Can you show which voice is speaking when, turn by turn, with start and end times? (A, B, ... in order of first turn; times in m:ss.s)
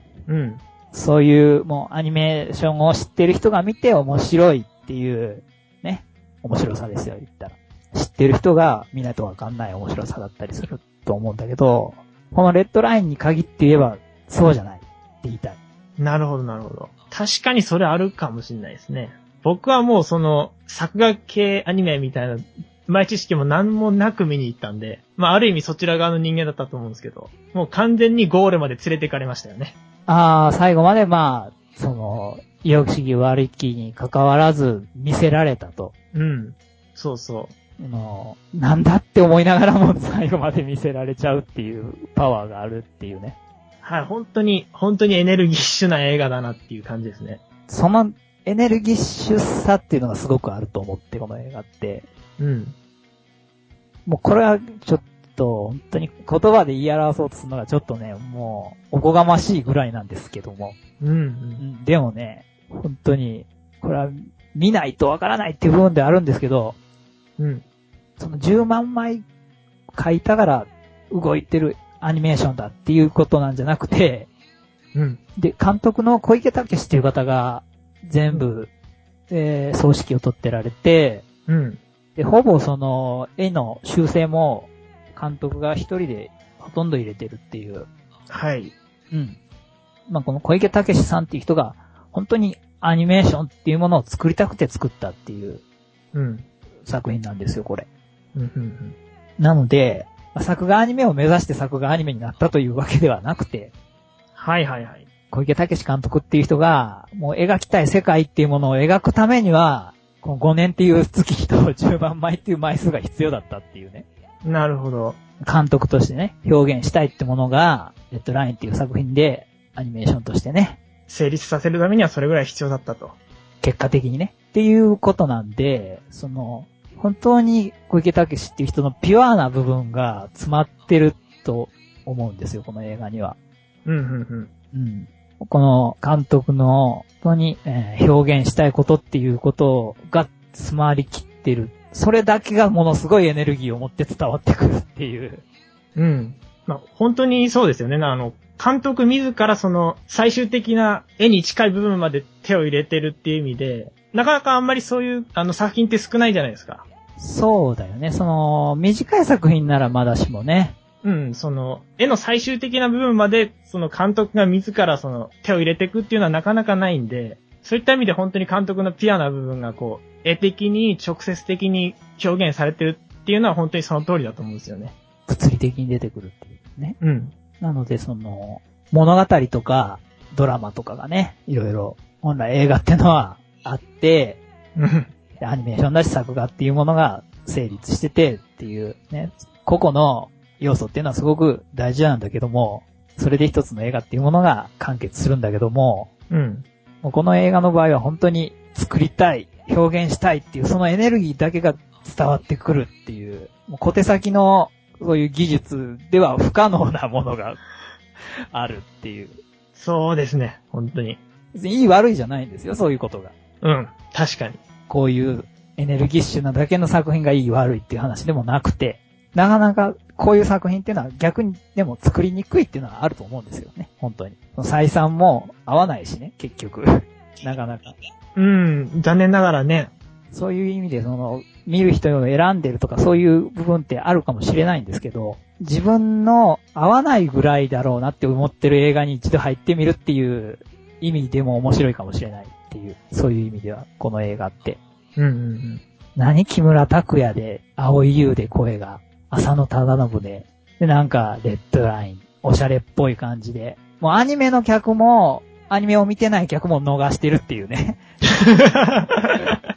0:00.3-0:00.6 A
0:00.9-0:15.6 B
0:16.0-0:29.8 A
0:30.1-0:35.9 B
0:36.1-0:37.5 A
0:37.8-0:43.4 B
0:43.8-0:47.4 A
0:47.7-0:52.1 B
0:52.4-0:52.8 A
0:54.1-1:00.8 B
1:01.0-1:01.6 A
1:01.6-1:06.8 B
1:07.4-1:07.6 A
1:08.2-1:09.2 B
1:09.9-1:14.3 B
1:14.9-1:15.2 A
1:15.4-1:18.7 B
1:19.3-1:21.2 B
1:21.5-1:21.8 A
1:22.2-1:27.9 B
1:28.3-1:28.7 A
1:29.1-1:29.4 B
1:30.1-1:35.6 B
1:36.1-1:36.5 A
1:36.8-1:37.9 B
1:38.3-1:39.0 A
1:39.4-1:43.7 B
1:44.4-1:45.0 A
1:45.3-1:54.0 B
1:54.4-1:55.2 A
1:55.4-2:00.8 B
2:01.1-2:03.2 A
2:03.6-2:13.4 B
2:13.8-2:14.5 A
2:14.7-2:25.4 B
2:26.0-2:36.8 A
2:37.2-2:40.8 B
2:41.0-2:55.0 A
2:55.3-2:57.0 B
2:57.0-2:57.3 A
2:57.6-3:04.4 B
3:04.8-3:05.1 A
3:05.4-3:16.1 B
3:16.3-3:16.6 A
3:17.0-3:27.6 B
3:28.5-3:29.4 B
3:29.8-3:31.2 A
3:31.5-3:33.3 B
3:33.6-3:34.6 A
3:34.9-3:48.0 B
3:48.4-3:49.9 A
3:50.3-4:04.8 B
4:05.2-4:05.8 A
4:06.2-4:18.0 B
4:18.4-4:19.5 A